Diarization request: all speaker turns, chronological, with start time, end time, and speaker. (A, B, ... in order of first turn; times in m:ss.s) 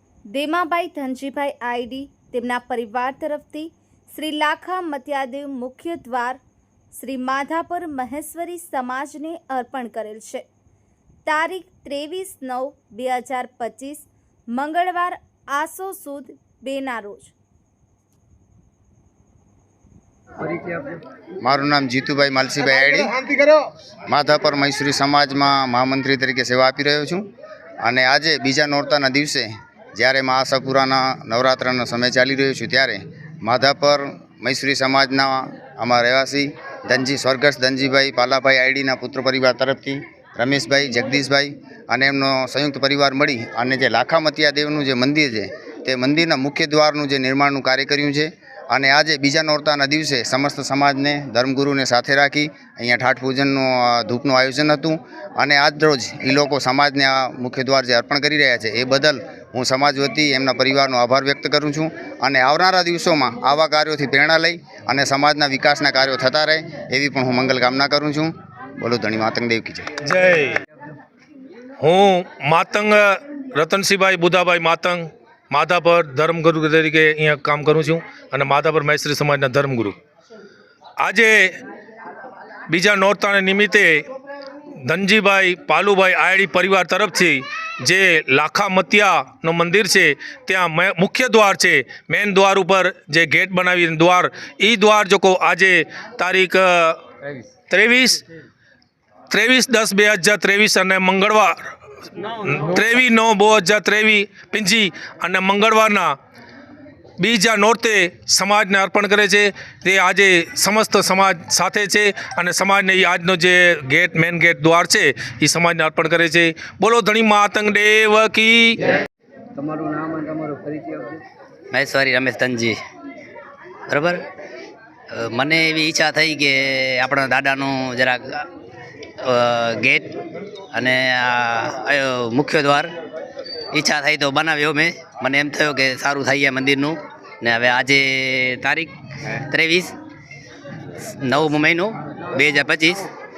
0:00.3-0:06.4 A
0:06.9-0:10.4 A
0:11.2-0:17.3 A
0:20.4-0:21.0 B
0:21.4-0:23.3 C
0:24.1-0:27.2 C
0:27.8-1:09.9 C
1:10.0-1:10.6 D
1:11.8-1:20.0 D
1:21.0-1:21.6 D
1:22.7-1:24.0 D
1:24.8-1:37.0 D
1:37.7-1:38.2 D
1:39.3-1:41.7 D
1:42.4-1:46.2 D
1:47.2-1:58.8 D
1:59.5-2:01.2 B
2:01.7-2:02.8 E
2:03.9-2:04.2 E
2:05.1-2:08.4 E
2:09.2-2:10.1 E
2:10.7-2:12.9 E
2:13.7-2:19.9 E
2:21.2-2:23.1 E